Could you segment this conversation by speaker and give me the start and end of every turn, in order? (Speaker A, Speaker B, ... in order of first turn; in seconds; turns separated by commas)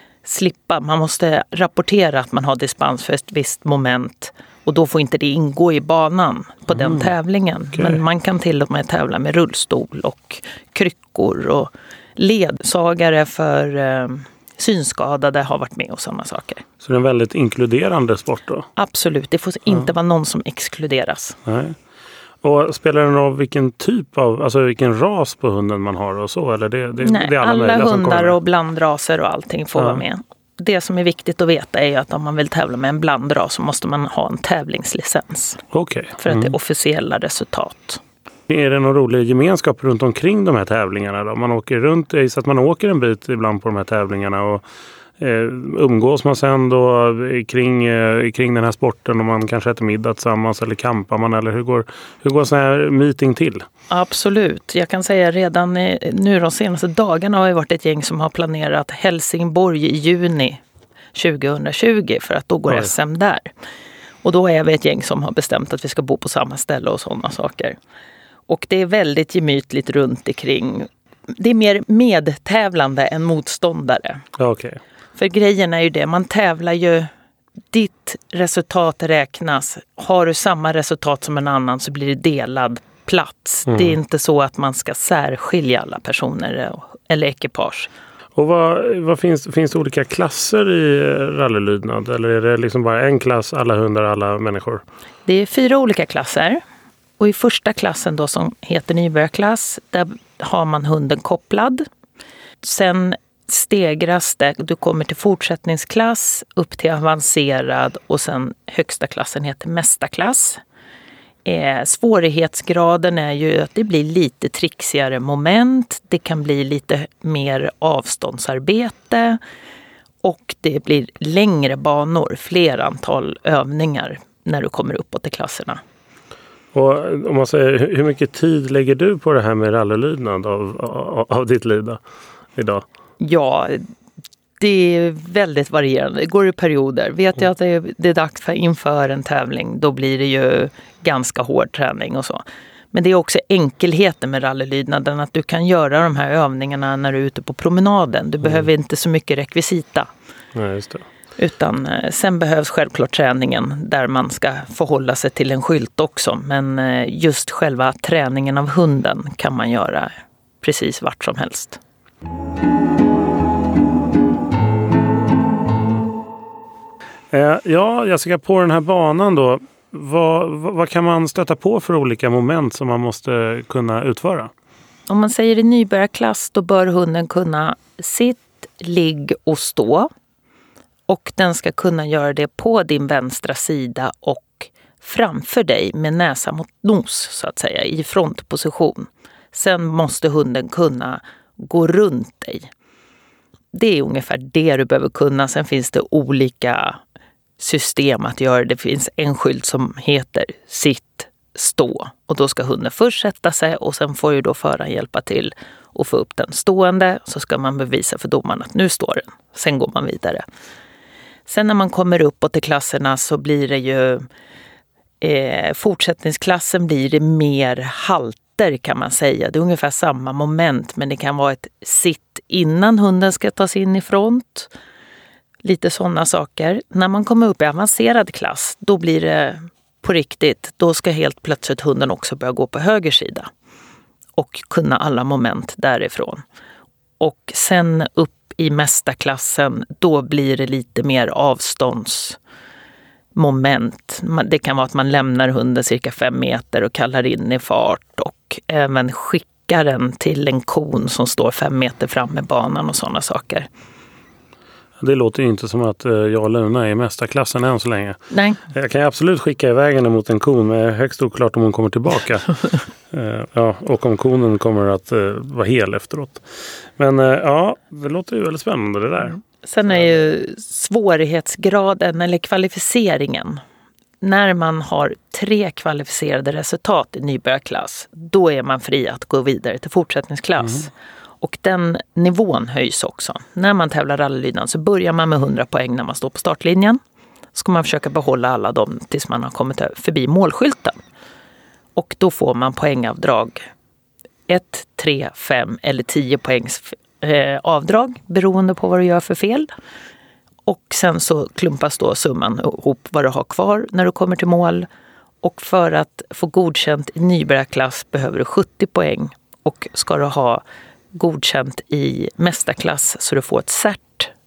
Speaker A: 0.2-16.6, Speaker B: 6.7-7.1, Speaker B: 16.8-18.7, Speaker A: 18.8-21.4, Speaker B: 21.4-21.8, Speaker B: 22.4-28.4, Speaker A: 27.0-35.6, Speaker B: 29.8-30.0, Speaker B: 35.7-36.5, Speaker A: 36.2-38.0, Speaker B: 38.5-44.6, Speaker B: 45.2-53.6, Speaker A: 53.9-60.6, Speaker A: 61.1-63.5, Speaker A: 64.2-67.8, Speaker A: 68.5-74.2, Speaker B: 74.4-74.8, Speaker A: 75.2-77.1, Speaker A: 77.7-87.9, Speaker B: 83.7-83.9, Speaker B: 88.3-94.8, Speaker A: 95.2-96.6, Speaker A: 97.2-101.8, Speaker A: 102.6-110.6, Speaker A: 111.4-119.4, Speaker A: 120.2-125.8, Speaker B: 126.7-132.0, Speaker B: 132.6-132.8, Speaker A: 133.2-133.9, Speaker A: 134.6-150.1, Speaker B: 150.5-151.0, Speaker A: 151.4-161.8, Speaker B: 167.3-174.5, Speaker A: 175.1-180.1, Speaker A: 181.1-192.7, Speaker A: 193.7-197.0, Speaker A: 197.6-210.4, Speaker A: 211.5-214.2, Speaker A: 215.2-224.7, Speaker A: 225.6-233.5, Speaker A: 234.3-236.4, Speaker A: 237.2-242.4, Speaker A: 243.3-253.7, Speaker B: 255.0-258.2, Speaker A: 258.3-258.6, Speaker B: 258.7-262.6, Speaker B: 263.1-266.4, Speaker B: 267.0-269.4, Speaker A: 269.6-273.6, Speaker A: 274.2-287.0, Speaker A: 287.5-291.0, Speaker A: 291.9-293.6, Speaker A: 294.5-299.7, Speaker A: 300.6-304.9, Speaker A: 305.4-314.3